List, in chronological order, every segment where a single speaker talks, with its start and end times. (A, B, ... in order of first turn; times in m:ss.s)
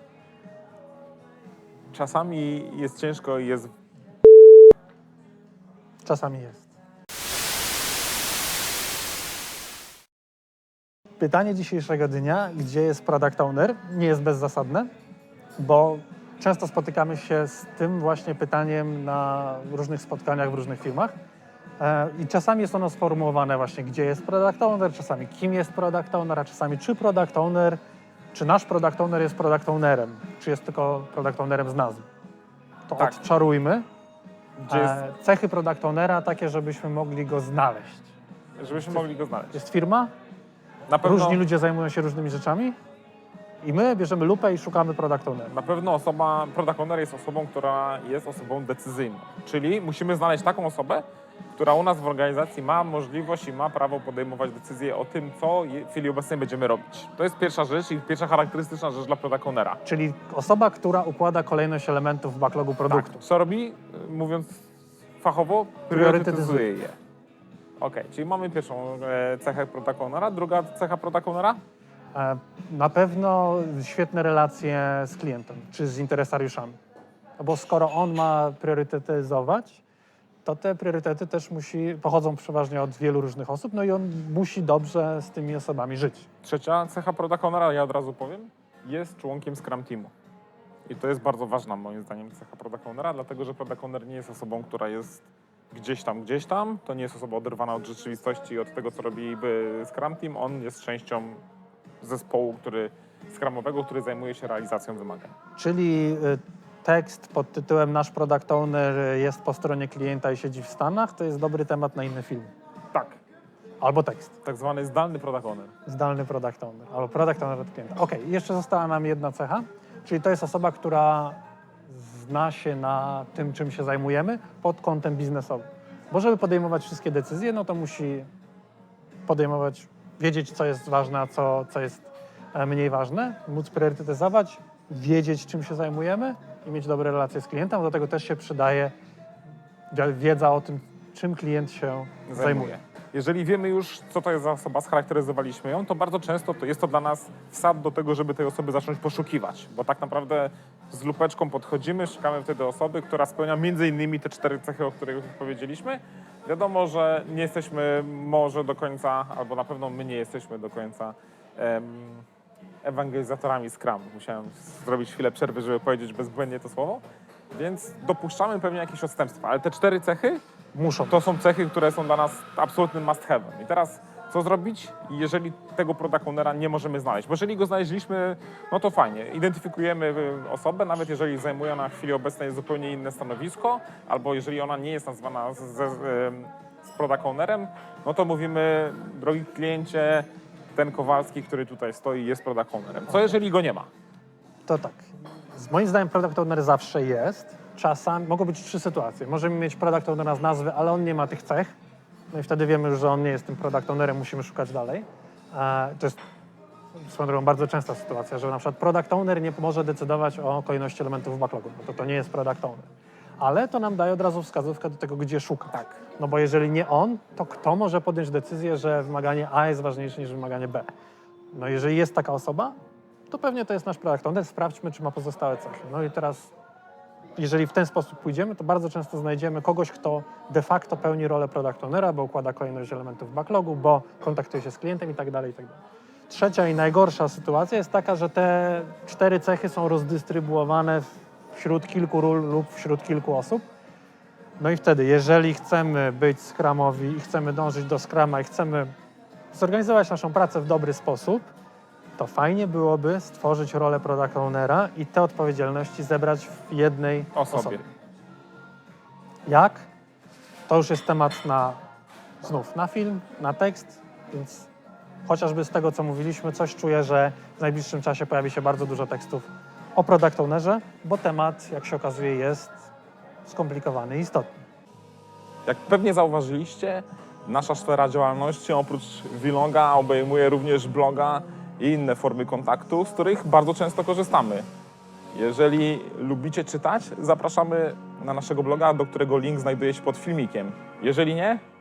0:01.9-0:03.7 A
0:06.0-0:06.7 B
0:11.2-0:14.9 B
0:15.6-0:21.1 B
0:21.8-0:27.8 B
0:28.3-0:32.0 B
0:32.9-0:33.8 B
0:34.6-0:35.0 A
0:34.7-0:38.1 B
0:38.6-0:39.6 A
0:39.5-0:40.1 B
0:40.9-0:41.4 A
0:41.0-0:42.8 B
0:43.6-0:45.5 B
0:45.5-0:51.0 A
0:51.6-0:59.8 A
0:59.8-1:03.2 B
1:02.9-1:04.6 A
1:05.2-1:07.0 A
1:05.9-1:06.6 B
1:07.8-1:11.6 A
1:12.1-1:16.8 B
1:17.4-1:19.8 B
1:20.4-1:26.3 B
1:26.4-1:30.1 A
1:30.8-1:41.4 A
1:42.0-1:45.3 A
1:45.6-1:52.5 B
1:52.9-1:53.2 A
1:53.8-1:54.3 B
1:54.4-1:55.7 A
1:55.8-2:08.3 B
2:09.2-2:18.9 B
2:19.9-2:22.8 B
2:22.3-2:42.2 A
2:42.8-2:50.4 A
2:50.7-2:51.2 B
2:51.1-3:13.9 A
3:14.6-3:21.7 B
3:22.3-3:26.2 B
3:27.0-3:32.9 B
3:33.4-3:40.8 B
3:41.5-3:42.7 B
3:43.3-3:46.5 B
3:47.4-4:03.6 B
4:04.6-4:08.9 B
4:09.5-4:11.4 B
4:12.2-4:17.8 B
4:17.4-4:17.8 A
4:19.5-4:19.9 B
4:20.7-4:21.8 B
4:22.4-4:24.7 B
4:25.2-4:32.9 B
4:33.4-4:34.5 B
4:35.6-4:44.6 A
4:45.3-4:51.6 A